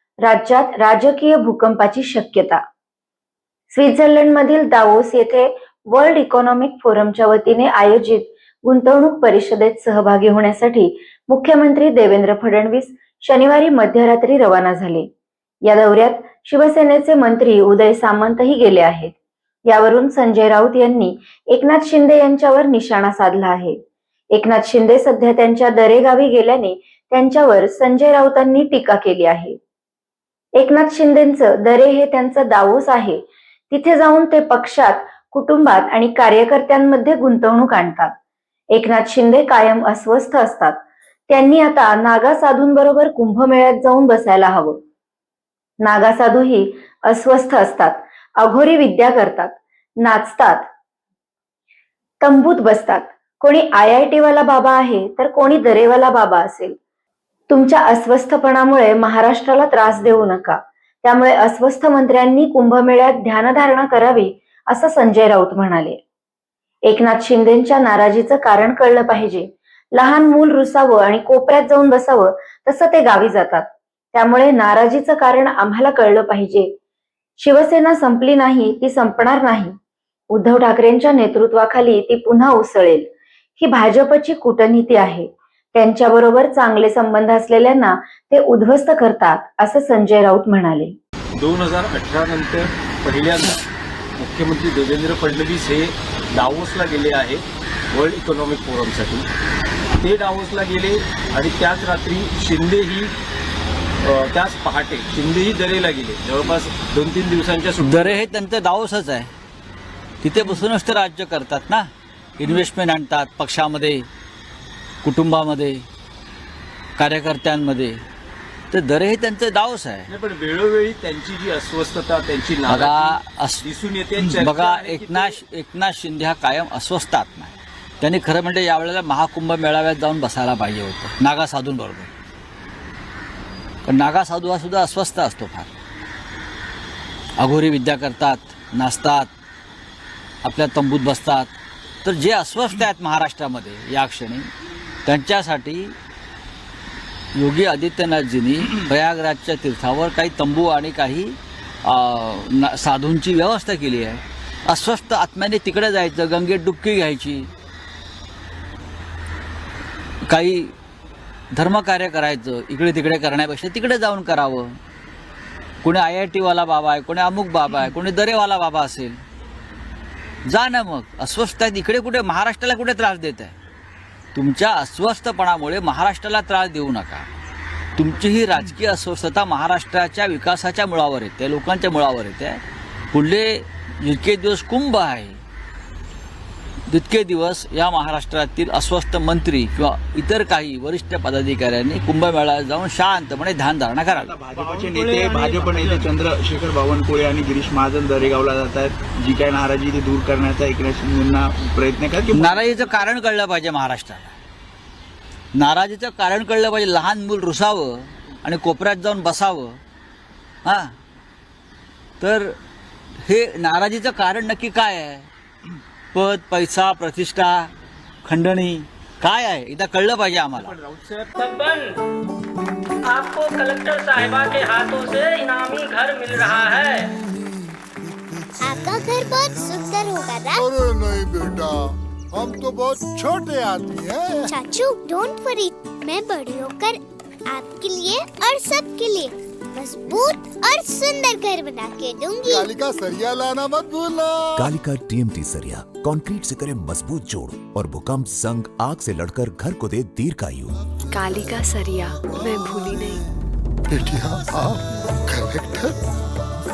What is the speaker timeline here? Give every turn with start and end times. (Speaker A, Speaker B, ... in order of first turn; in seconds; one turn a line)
Speaker A: 0.2-2.6
Speaker A: 3.7-15.1
Speaker A: 15.6-19.1
Speaker A: 19.7-23.8
Speaker A: 24.3-29.6
Speaker A: 30.6-38.1
Speaker A: 38.7-44.8
Speaker A: 45.8-50.7
Speaker A: 52.2-56.8
Speaker A: 57.5-66.0
Speaker A: 66.8-76.7
Speaker A: 77.4-79.7
Speaker A: 80.3-91.0
Speaker B: 91.3-93.6
Speaker B: 94.2-99.2
Speaker B: 100.0-103.1
Speaker B: 104.0-108.2
Speaker C: 107.8-109.3
Speaker C: 110.2-111.9
Speaker C: 112.4-114.1
Speaker C: 115.0-115.8
Speaker C: 117.0-118.0
Speaker C: 118.7-120.1
Speaker B: 120.1-125.3
Speaker C: 122.6-132.1
Speaker C: 133.8-135.7
Speaker C: 137.4-139.3
Speaker C: 140.4-141.5
Speaker C: 142.0-144.5
Speaker C: 145.1-145.9
Speaker C: 147.3-157.5
Speaker C: 160.3-160.7
Speaker C: 161.5-164.7
Speaker C: 165.8-169.2
Speaker C: 170.5-173.5
Speaker C: 174.3-177.3
Speaker C: 178.0-182.6
Speaker C: 183.1-185.4
Speaker C: 186.9-194.3
Speaker D: 194.1-202.7
Speaker B: 194.6-195.9
Speaker C: 202.3-204.3
Speaker C: 205.5-209.8
Speaker C: 210.6-210.9
Speaker C: 212.2-212.5
Speaker C: 213.2-215.3
Speaker C: 216.1-217.7
Speaker C: 218.2-220.8
Speaker B: 220.6-221.3
Speaker E: 221.4-221.9
Speaker E: 223.1-227.0
Speaker F: 228.6-230.6
Speaker G: 228.6-229.7
Speaker G: 230.5-234.6
Speaker F: 234.5-242.7
Speaker G: 242.5-244.7
Speaker H: 244.6-250.8
Speaker I: 251.1-253.2
Speaker G: 253.9-255.9